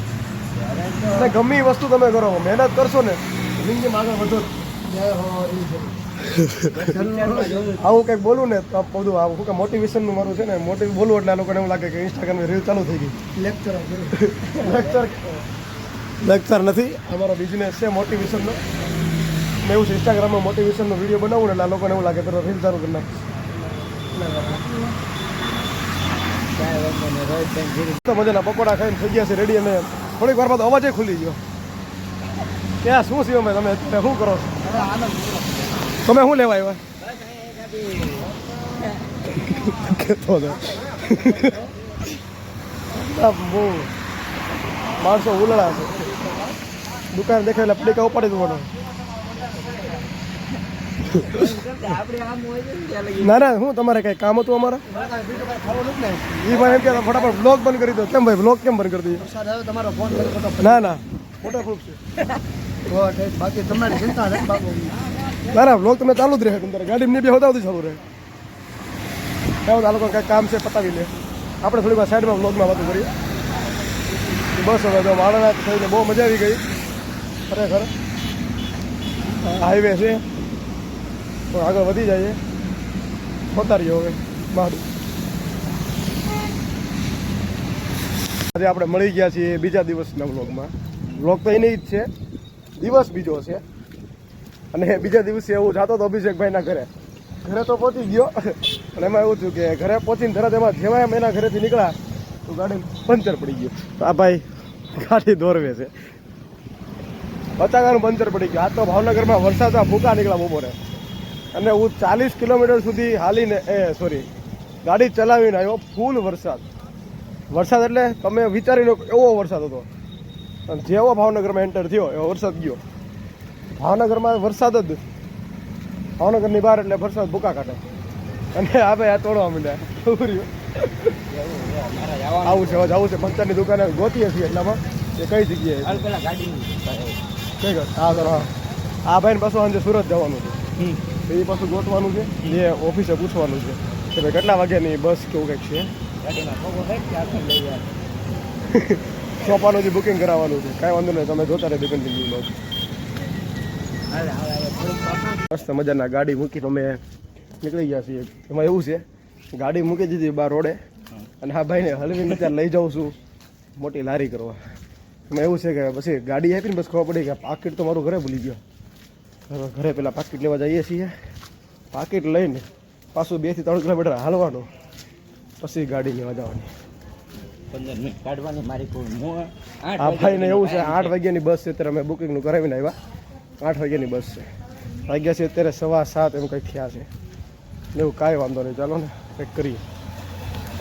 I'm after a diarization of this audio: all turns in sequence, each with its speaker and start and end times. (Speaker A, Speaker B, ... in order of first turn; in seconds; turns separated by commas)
Speaker A: 0.5-1.3, Speaker B: 1.1-4.6, Speaker C: 4.8-5.9, Speaker B: 6.3-6.8, Speaker A: 6.7-7.9, Speaker C: 6.9-7.8, Speaker B: 7.8-13.2, Speaker C: 13.3-14.1, Speaker B: 14.1-15.3, Speaker A: 14.4-15.0, Speaker B: 16.2-18.6, Speaker B: 19.6-23.2, Speaker C: 24.1-24.9, Speaker A: 26.5-28.0, Speaker B: 28.0-31.4, Speaker B: 32.8-34.5, Speaker C: 34.6-35.9, Speaker B: 36.0-36.8, Speaker A: 37.0-39.3, Speaker B: 39.3-41.6, Speaker C: 40.7-41.7, Speaker A: 40.7-41.3, Speaker B: 42.9-43.9, Speaker B: 45.0-46.0, Speaker A: 45.9-46.6, Speaker B: 47.1-48.7, Speaker C: 48.8-50.0, Speaker A: 49.4-50.1, Speaker A: 51.1-53.4, Speaker B: 51.1-51.5, Speaker B: 53.2-54.9, Speaker C: 54.9-56.5, Speaker B: 56.4-59.2, Speaker A: 56.5-57.5, Speaker C: 59.2-60.9, Speaker B: 60.6-62.0, Speaker C: 62.9-65.0, Speaker A: 65.1-65.4, Speaker B: 65.5-68.0, Speaker B: 69.7-73.1, Speaker B: 74.5-76.6, Speaker B: 77.5-77.9, Speaker B: 79.5-80.2, Speaker B: 81.5-82.4, Speaker B: 83.5-84.8, Speaker B: 88.5-92.1, Speaker B: 92.8-93.6, Speaker B: 94.7-96.9, Speaker B: 97.4-101.9, Speaker B: 102.5-105.9, Speaker B: 107.6-110.8, Speaker B: 111.5-114.3, Speaker B: 114.8-116.6, Speaker B: 117.5-119.9, Speaker B: 120.7-122.8, Speaker B: 123.8-125.0, Speaker B: 126.2-127.8, Speaker B: 128.5-131.1, Speaker A: 131.3-133.0, Speaker B: 132.4-136.0, Speaker A: 135.8-137.2, Speaker B: 137.6-138.5, Speaker A: 138.1-138.4, Speaker B: 139.1-140.6, Speaker B: 141.3-145.9, Speaker A: 146.2-147.9, Speaker B: 148.7-152.6, Speaker A: 154.1-155.5, Speaker B: 155.5-157.0, Speaker B: 157.6-160.8, Speaker B: 161.4-163.2, Speaker B: 163.8-164.6, Speaker B: 165.3-168.6, Speaker B: 169.5-171.1, Speaker B: 171.9-174.7, Speaker B: 175.6-176.7, Speaker A: 177.7-181.2, Speaker B: 180.0-182.9, Speaker B: 183.6-184.4, Speaker B: 185.1-187.1, Speaker B: 187.9-189.8